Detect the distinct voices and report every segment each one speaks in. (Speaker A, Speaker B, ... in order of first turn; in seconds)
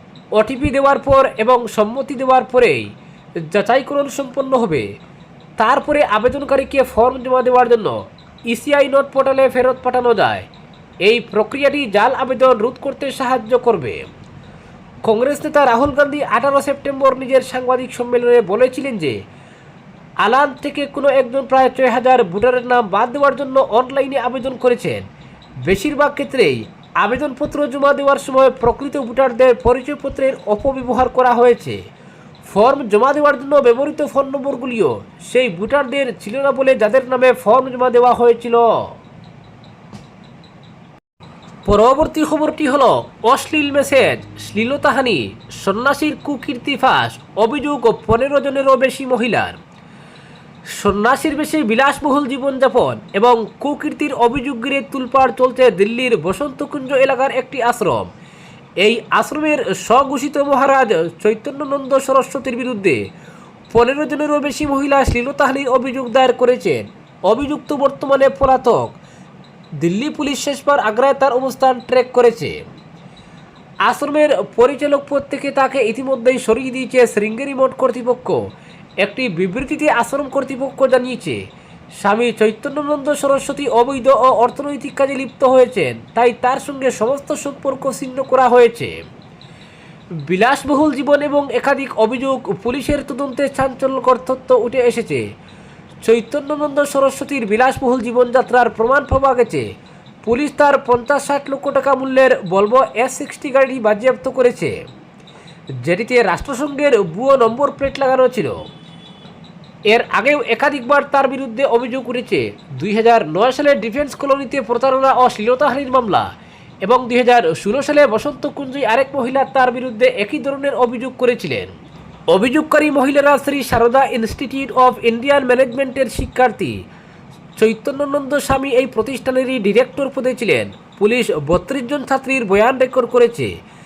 Speaker A: 0.4-2.9, 3.5-4.9, 5.6-8.0, 8.5-10.5, 11.0-14.1, 15.1-19.2, 20.2-25.1, 25.7-31.8, 32.5-38.8, 41.7-49.6, 50.8-58.1, 58.8-63.0, 63.7-69.0, 69.8-72.6, 73.9-78.4, 79.0-81.4, 82.0-89.0, 90.3-95.2, 96.0-99.7, 100.2-104.8, 105.8-108.6, 109.9-116.3, 116.8-121.7, 122.3-126.7, 127.6-133.5